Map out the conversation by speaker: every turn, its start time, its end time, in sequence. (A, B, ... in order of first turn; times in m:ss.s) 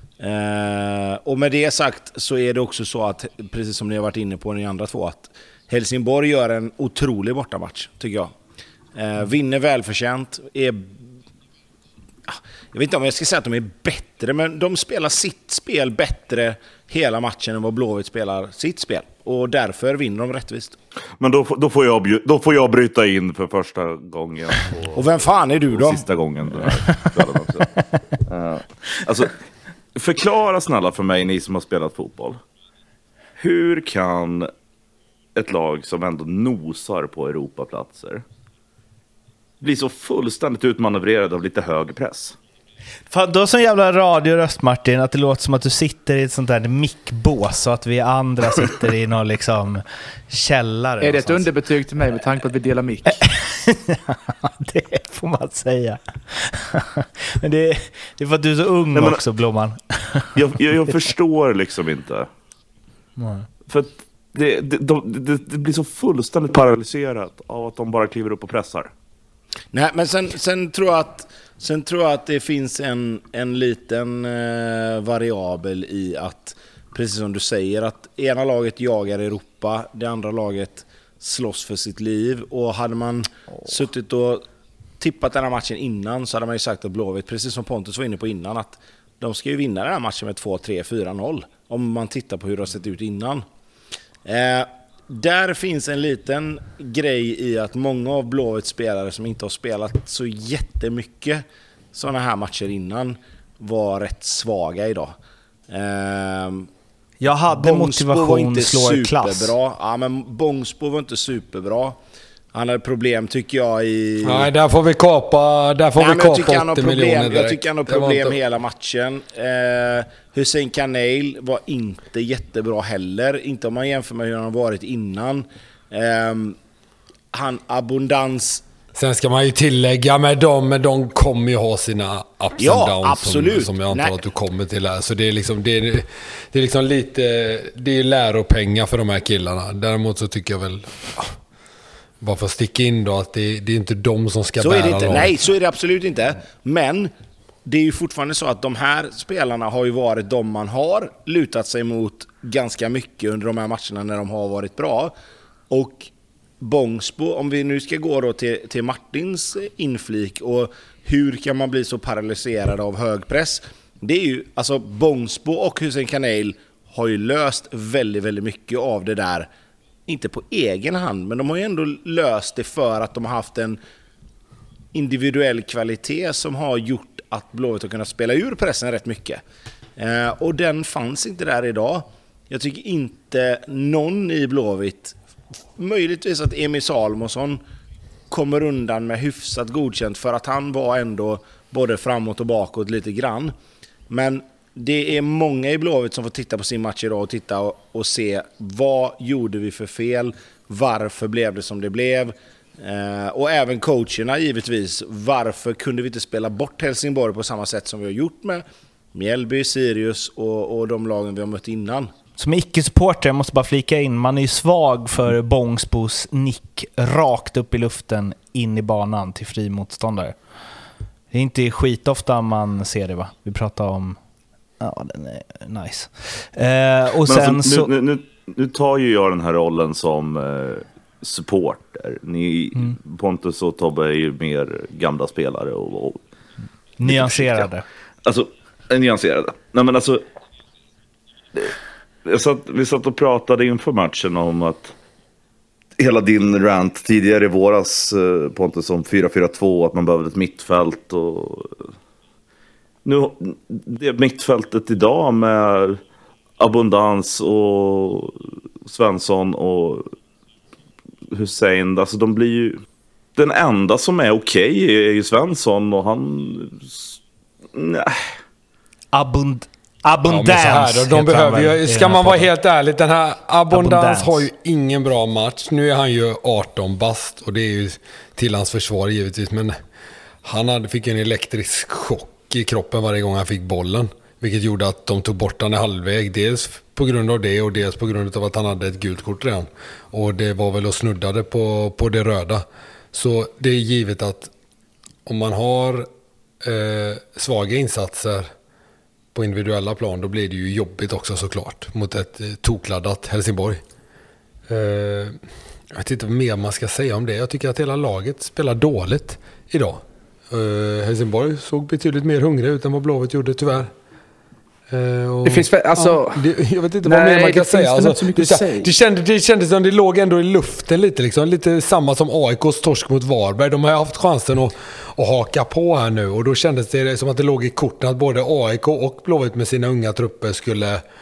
0:00.2-0:08.3 A
0:08.9-0:11.0 A
0:12.3-0:20.8 A
0:21.2-0:29.3 B
0:24.9-0:26.0 A
0:29.9-0:32.4 B
0:33.4-0:34.5 B
0:35.4-0:38.2 B
0:39.6-0:42.4 B
0:43.1-0:51.4 C
0:51.0-0:53.2 D
0:53.0-1:00.3 C
0:58.9-0:59.2 B
1:00.3-1:02.3 B
1:03.2-1:03.5 C
1:03.7-1:08.9 B
1:09.7-1:24.4 A
1:25.0-1:33.4 A
1:34.2-1:45.1 A
1:45.7-1:46.7 A
1:47.2-1:49.5 C
1:47.5-1:52.0 A
1:52.5-1:54.5 A
1:54.2-1:58.4 E
1:56.0-2:06.6 A
2:07.3-2:08.6 A
2:08.9-2:21.3 E
2:12.6-2:14.1 A
2:22.2-2:25.3 E
2:24.6-2:27.1 A
2:27.6-2:35.1 A
2:35.7-2:49.5 A
2:50.1-2:53.8 A
2:54.9-2:59.4 A
3:00.0-3:05.2 A
3:05.8-3:07.6 A
3:08.3-3:13.5 A
3:14.1-3:32.1 A
3:32.4-3:40.4 C
3:41.3-3:44.2 C
3:44.8-3:47.9 C
3:47.3-3:56.2 B
3:57.0-3:57.8 C
3:57.0-3:57.7 B
3:58.2-4:00.2 B
4:02.2-4:04.9 B
4:06.0-4:11.9 B
4:13.0-4:16.0 B
4:16.6-4:20.1 B
4:21.3-4:22.8 B
4:23.4-4:27.2 B
4:27.7-4:28.3 B
4:29.1-4:32.5 C
4:30.3-4:39.7 E
4:33.7-4:34.4 C
4:40.4-4:54.5 E
4:55.2-4:56.1 E
4:56.6-4:58.5 E
4:59.3-5:03.8 E
5:04.7-5:05.4 E
5:05.9-5:13.9 E
5:14.9-5:31.0 E
5:15.4-5:16.4 D
5:17.0-5:18.9 D